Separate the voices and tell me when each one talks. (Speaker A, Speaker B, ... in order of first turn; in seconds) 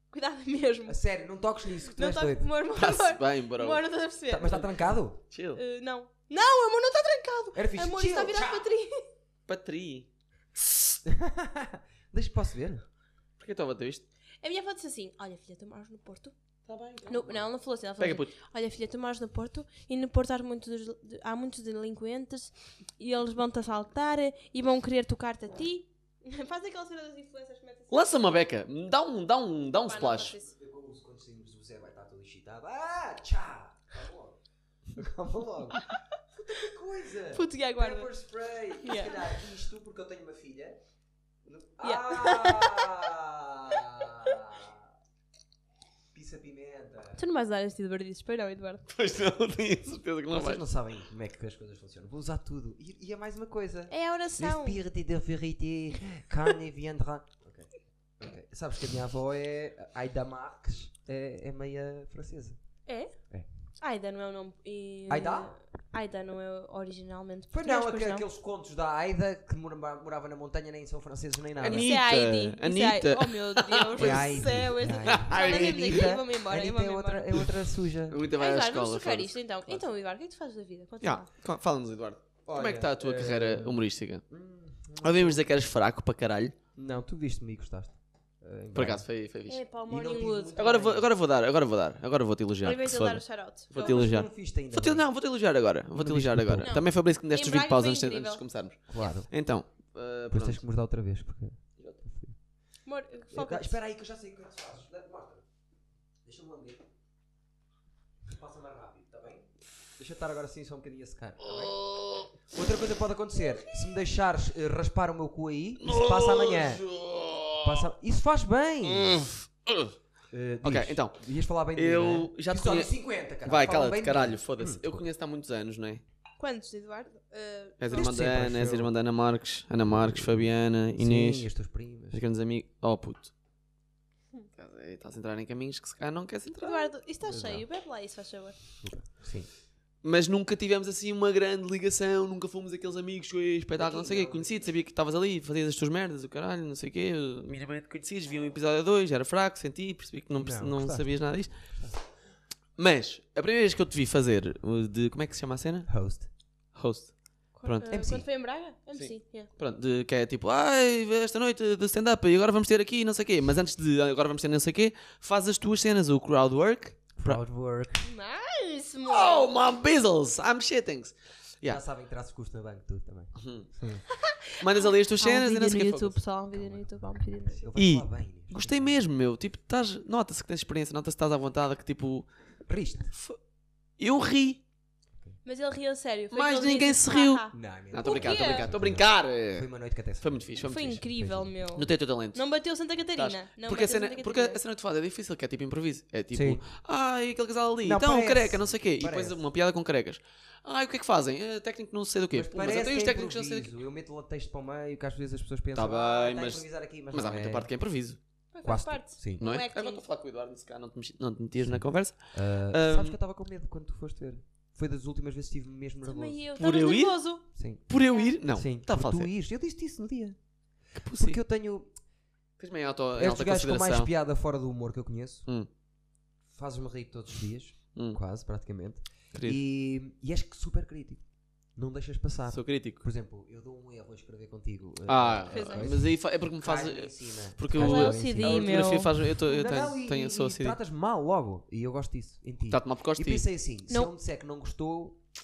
Speaker A: 0.1-1.0, 1.9-4.6, 5.5-9.0, 14.4-16.3, 17.1-28.1, 29.8-30.5, 37.3-38.1, 38.8-39.2, 41.8-43.0, 47.1-48.8, 53.9-54.8, 62.9-63.1, 63.8-68.2, 71.6-77.3, 78.3-81.3, 89.5-90.6, 92.6-94.1, 96.6-98.4, 102.8-103.8, 126.4-128.1, 136.6-138.6, 157.6-159.5, 168.0-169.5, 174.1-177.7, 185.4-188.7, 190.6-194.6, 208.5-210.0, 216.0-217.4, 218.0-218.3, 235.5-235.9, 237.7-239.1
Speaker B: 0.9-2.5, 4.3-5.2, 7.5-8.7, 11.1-12.8, 30.5-34.4, 34.9-40.8, 41.4-44.9, 46.1-47.2, 50.3-62.6, 65.1-65.5, 67.5-71.9, 73.9-78.2, 82.5-85.4, 86.8-89.0, 89.9-91.1, 93.8-95.0, 96.0-96.7, 98.9-99.3, 100.3-102.3, 103.3-105.4, 106.2-106.8, 108.3-111.8, 112.5-116.8, 117.6-119.2, 120.3-125.0, 127.9-128.9, 129.9-132.2, 137.2-137.6, 138.8-139.5, 143.8-144.6, 150.4-151.1, 151.7-152.0, 155.9-156.3, 157.9-158.2, 167.2-168.0, 171.7-174.0, 176.5-179.0, 182.7-183.1, 187.5-191.6, 196.3-196.6, 197.8-199.4, 202.3-207.7, 208.6-209.4, 211.6-216.4, 217.5-217.8, 218.5-220.4, 221.1-221.9, 223.2-225.5, 226.5-231.2, 231.8-245.2
Speaker C: 2.8-3.8, 5.3-5.6, 9.5-10.9, 13.4-14.0, 16.6-18.3, 27.9-30.4, 48.9-50.6, 71.6-76.0, 78.1-79.8, 81.0-84.2, 85.0-86.5, 88.7-89.6, 90.5-100.6, 111.4-112.5, 115.8-117.9, 118.8-119.9, 120.6-121.2, 121.7-122.9, 123.4-126.0, 127.8-131.5, 132.1-133.3, 134.6-136.9, 140.0-151.6, 152.8-155.9, 156.7-157.9, 158.9-167.4, 169.1-171.8, 173.3-173.7, 174.6-176.2, 177.8-182.3, 184.0-184.6, 186.3-189.7, 190.2-191.0, 191.8-192.4, 193.2-203.7, 205.7-208.2, 209.4-213.2, 216.6-217.2, 217.9-219.3, 221.0-221.4, 222.6-224.1, 232.5-233.0, 235.1-240.8, 242.7-243.4